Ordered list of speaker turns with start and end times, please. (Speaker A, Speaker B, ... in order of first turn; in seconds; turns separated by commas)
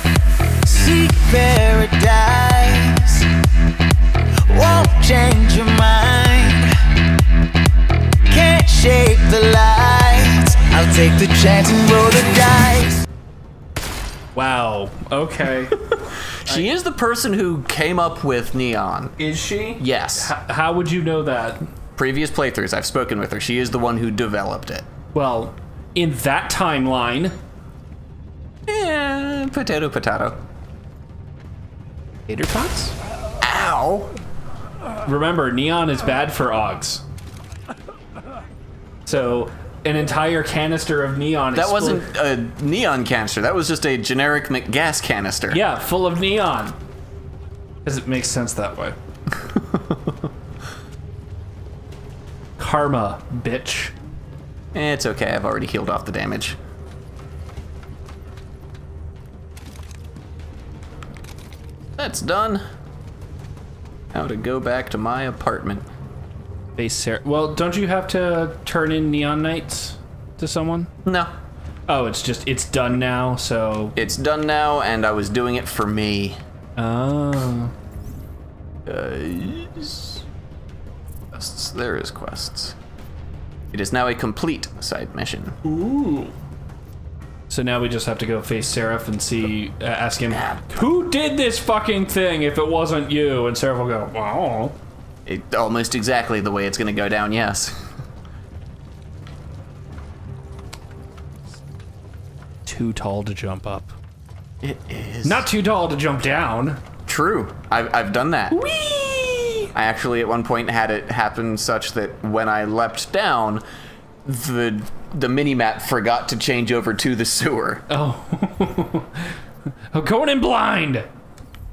Speaker A: 0.6-3.3, Speaker A: 4.5-6.7, Speaker A: 8.2-13.0, Speaker B: 14.3-15.7, Speaker C: 16.4-19.1, Speaker B: 19.2-21.6, Speaker C: 19.8-20.3, Speaker C: 21.9-24.9, Speaker B: 25.1-27.4, Speaker C: 28.7-30.4, Speaker B: 32.3-32.9, Speaker C: 33.4-34.1, Speaker B: 35.0-37.0, Speaker B: 39.0-42.0, Speaker C: 41.5-45.6, Speaker B: 45.5-46.8, Speaker B: 47.8-49.0, Speaker B: 52.6-53.9, Speaker C: 54.7-56.6, Speaker C: 62.0-62.6, Speaker C: 64.1-65.8, Speaker B: 66.8-70.9, Speaker C: 71.0-71.3, Speaker B: 71.9-74.0, Speaker C: 73.9-76.4, Speaker B: 76.8-77.7, Speaker C: 78.8-80.2, Speaker C: 81.3-82.8, Speaker C: 83.7-85.5, Speaker B: 85.6-86.3, Speaker B: 87.5-94.7, Speaker C: 90.3-91.0, Speaker C: 95.2-97.8, Speaker B: 102.7-104.0, Speaker C: 104.6-105.5, Speaker B: 105.2-106.8, Speaker C: 107.0-108.6, Speaker B: 108.5-109.7, Speaker C: 109.7-113.6, Speaker C: 114.2-117.8, Speaker B: 117.9-119.2, Speaker B: 119.9-121.0